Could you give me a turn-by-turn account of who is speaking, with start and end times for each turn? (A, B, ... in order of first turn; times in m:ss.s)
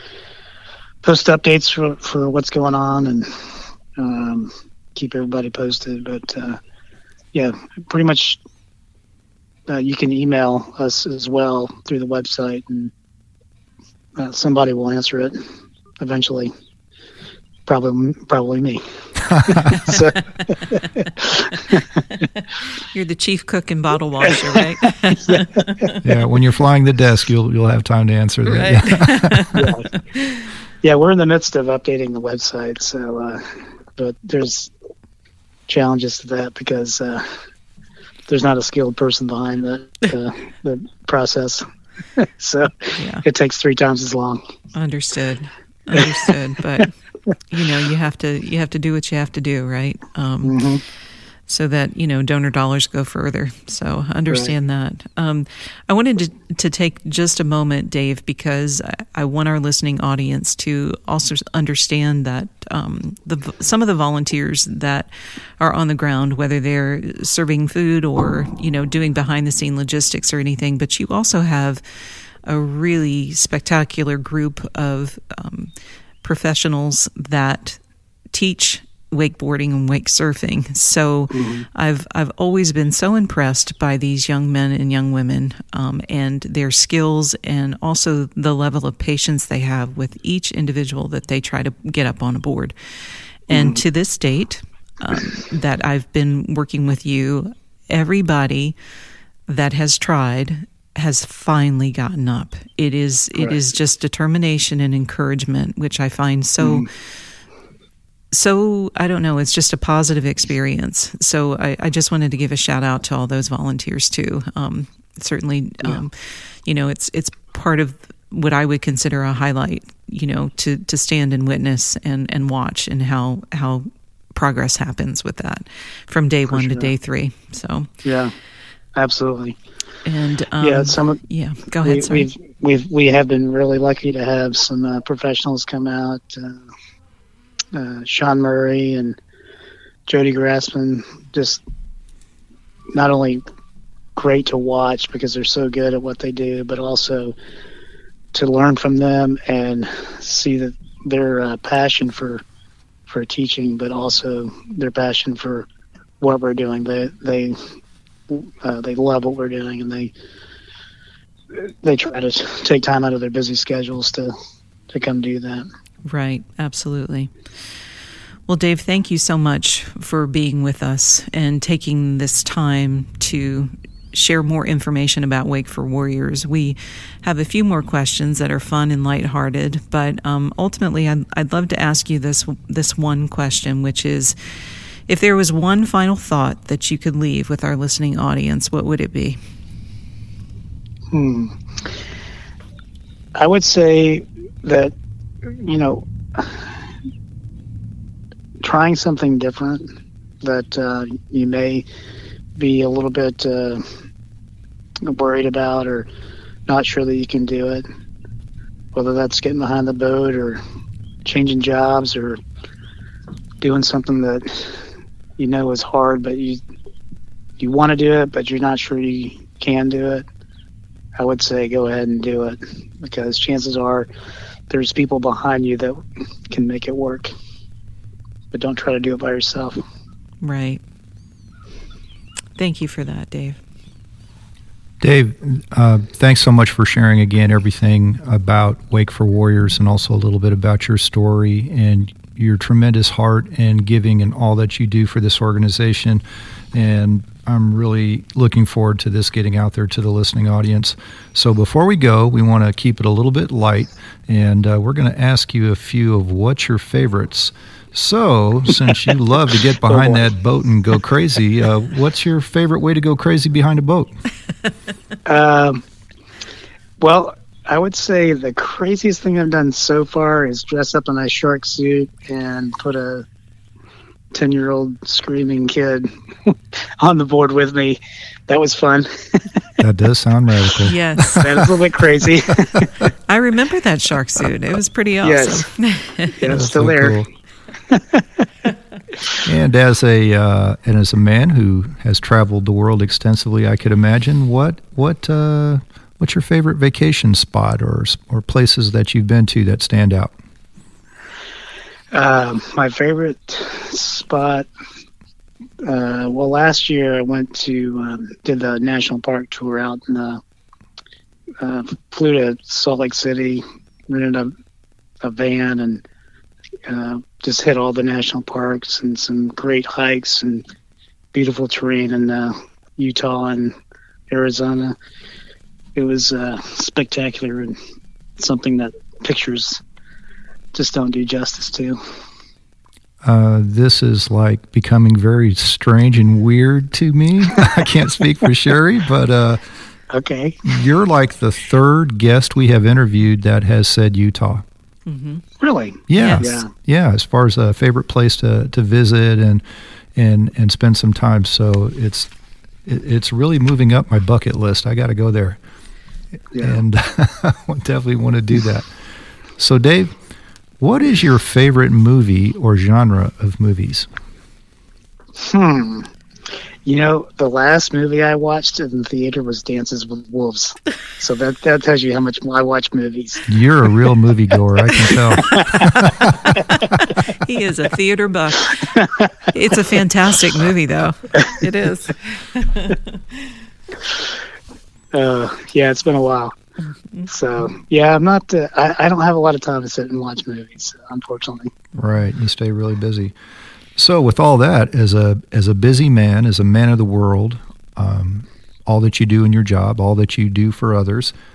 0:01.0-0:06.6 A
0:07.3-0:08.4 A
0:09.7-0:12.9 A
0:14.2-0:15.4 A
0:16.0-0:16.5 A
0:17.6-0:22.0 A
0:19.3-0:19.7 B
0:22.8-0:26.0 C
0:25.1-0:25.4 A
0:26.0-0:29.5 B
0:28.4-0:30.4 C
0:29.5-0:29.9 A
0:30.8-0:34.7 A
0:35.7-0:37.4 A
0:38.3-0:41.6 A
0:42.2-0:44.4 A
0:43.0-0:43.2 C
0:44.7-0:46.9 C
0:47.5-0:50.6 C
0:50.4-0:50.8 A
0:51.5-1:15.7 C
1:16.2-1:17.8 C
1:18.3-1:32.7 C
1:21.3-1:21.6 A
1:33.5-1:38.7 C
1:33.5-1:33.8 A
1:39.5-1:47.2 C
1:46.6-1:46.9 A
1:48.3-2:07.9 C
2:06.5-2:06.9 A
2:08.0-2:08.3 A
2:08.9-2:09.6 A
2:10.0-2:12.3 C
2:10.6-2:11.2 A
2:11.8-2:16.6 A
2:17.7-2:19.2 A
2:20.1-2:21.6 A
2:22.9-2:23.4 A
2:24.2-2:27.3 A
2:28.3-2:32.4 A
2:33.1-2:35.7 A
2:36.2-2:37.7 A
2:38.3-2:40.1 A
2:41.5-2:44.3 A
2:44.9-2:45.7 A
2:46.0-2:47.3 C
2:48.5-3:04.4 C
3:05.1-3:09.4 C
3:11.1-3:12.0 A
3:13.3-3:14.9 A
3:15.4-3:16.8 A
3:18.6-3:21.8 A
3:22.6-3:23.8 A
3:25.0-3:26.1 A
3:26.7-3:27.8 A
3:28.9-3:30.6 A
3:31.2-3:32.4 A
3:33.6-3:36.6 A
3:37.6-3:40.2 A
3:41.2-3:44.1 A
3:44.7-3:47.3 A
3:48.5-3:49.8 A
3:50.4-3:50.8 C
3:52.6-3:53.6 C
3:55.0-4:06.2 B
4:06.7-4:24.1 B
4:19.8-4:20.3 A
4:25.2-4:25.8 A
4:27.0-4:33.2 A
4:34.3-4:39.6 A
4:39.8-4:41.6 B
4:40.8-4:41.6 C
4:41.4-4:42.9 A
4:43.3-4:46.3 C
4:45.2-4:45.7 A
4:46.3-4:47.2 A
4:46.5-4:47.3 B
4:47.9-4:48.4 A
4:49.4-5:00.3 B
5:02.1-5:04.7 A
5:05.8-5:10.4 A
5:11.6-5:14.5 A
5:15.2-5:16.0 A
5:16.9-5:20.6 A
5:21.3-5:23.7 A
5:24.3-5:25.0 A
5:25.9-5:27.8 A
5:28.4-5:29.8 A
5:30.7-5:32.0 A
5:33.2-5:39.6 B
5:40.1-5:40.7 A
5:40.6-5:44.6 B
5:45.0-5:45.4 C
5:45.6-5:46.7 A
5:46.1-5:49.6 B
5:46.1-5:46.5 C
5:50.2-5:52.3 B
5:52.8-5:55.6 B
5:56.5-5:56.8 A
5:56.6-5:58.9 B
5:59.6-6:00.1 B
6:00.8-6:04.1 B
6:05.4-6:06.1 A
6:06.8-6:13.4 A
6:13.5-6:16.6 B
6:15.1-6:16.8 A
6:16.7-6:23.1 C
6:19.0-6:19.3 A
6:25.1-6:26.5 A
6:27.3-6:31.7 A
6:32.0-6:33.3 B
6:34.0-6:41.3 B